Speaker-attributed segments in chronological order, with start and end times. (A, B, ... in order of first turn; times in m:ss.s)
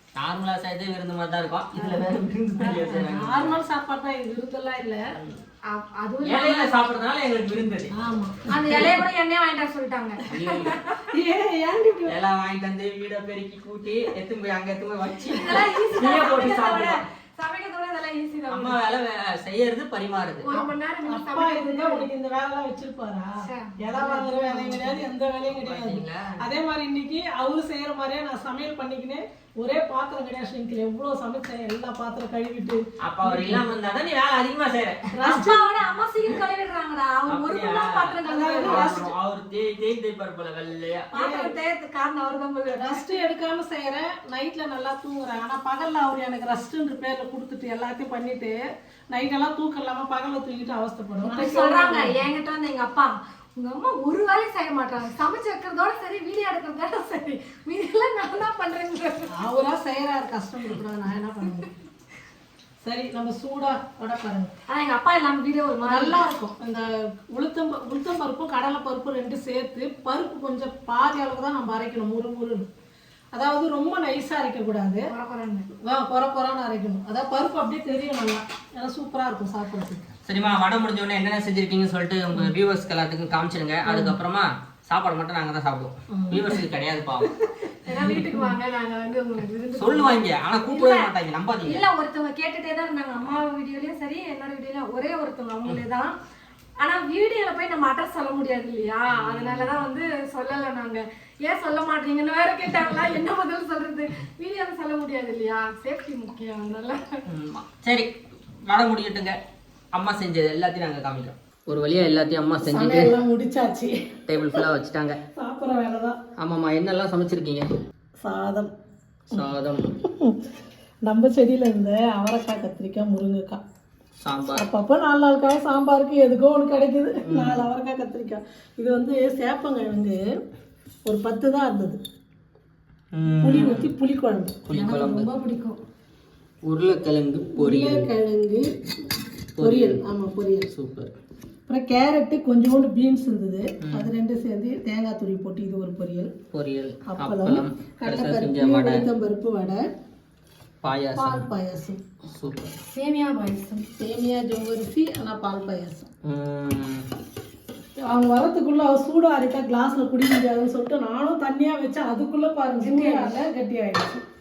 0:00.2-0:03.6 A
0:01.8-0:05.1 B
0:05.1-0:05.4 A
0:05.7-0:06.8 C
0:06.2-0:07.9 A
0:07.9-0:09.0 B
0:08.4-0:11.0 C
0:10.3-0:10.7 A
0:11.1-0:12.1 B
0:12.0-0:17.0 A
0:15.2-0:18.8 C
0:18.5-0:20.5 A
0:20.4-0:22.1 C
0:20.5-0:33.7 B
0:23.4-0:25.0 C
0:25.5-0:26.4 A
0:33.0-0:35.2 A
0:35.1-0:35.7 B
0:35.2-0:39.0 C
0:37.3-0:41.1 A
0:38.2-0:39.1 B
0:41.1-0:41.5 B
0:41.1-0:43.1 C
0:42.7-0:52.3 B
0:51.2-0:59.4 C
0:59.3-1:01.7 B
1:02.8-1:04.5 B
1:04.7-1:06.3 C
1:05.8-1:12.7 B
1:13.3-1:15.1 B
1:15.1-1:15.7 C
1:15.8-1:20.0 B
1:20.2-1:27.3 A
1:23.8-1:24.2 B
1:26.1-1:26.6 B
1:27.7-1:31.1 C
1:27.9-1:28.5 B
1:29.7-1:31.8 A
1:31.6-1:36.1 C
1:36.8-1:47.2 C
1:39.1-1:39.8 A
1:47.3-1:48.1 A
1:48.7-1:49.4 A
1:49.9-1:53.1 A
1:52.6-1:54.6 B
1:54.3-1:55.2 A
1:55.4-1:56.2 B
1:56.4-1:57.7 A
1:58.2-1:58.7 B
1:59.3-1:59.9 A
2:01.0-2:03.6 B
2:04.2-2:04.7 A
2:04.5-2:10.2 B
2:07.2-2:07.6 A
2:11.0-2:12.0 B
2:13.1-2:13.9 A
2:13.4-2:14.6 B
2:14.6-2:15.3 A
2:14.7-2:15.8 C
2:16.6-2:18.1 A
2:17.5-2:18.7 B
2:19.6-2:20.0 A
2:19.6-2:20.7 B
2:20.7-2:21.1 A
2:21.7-2:26.3 B
2:23.8-2:24.1 A
2:26.5-2:29.1 A
2:27.1-2:29.8 B
2:30.8-2:31.5 A
2:31.2-2:32.0 B
2:32.3-2:32.7 A
2:32.9-2:33.9 C
2:34.0-2:36.1 B
2:36.2-2:37.0 A
2:38.1-2:44.2 B
2:42.8-2:43.3 C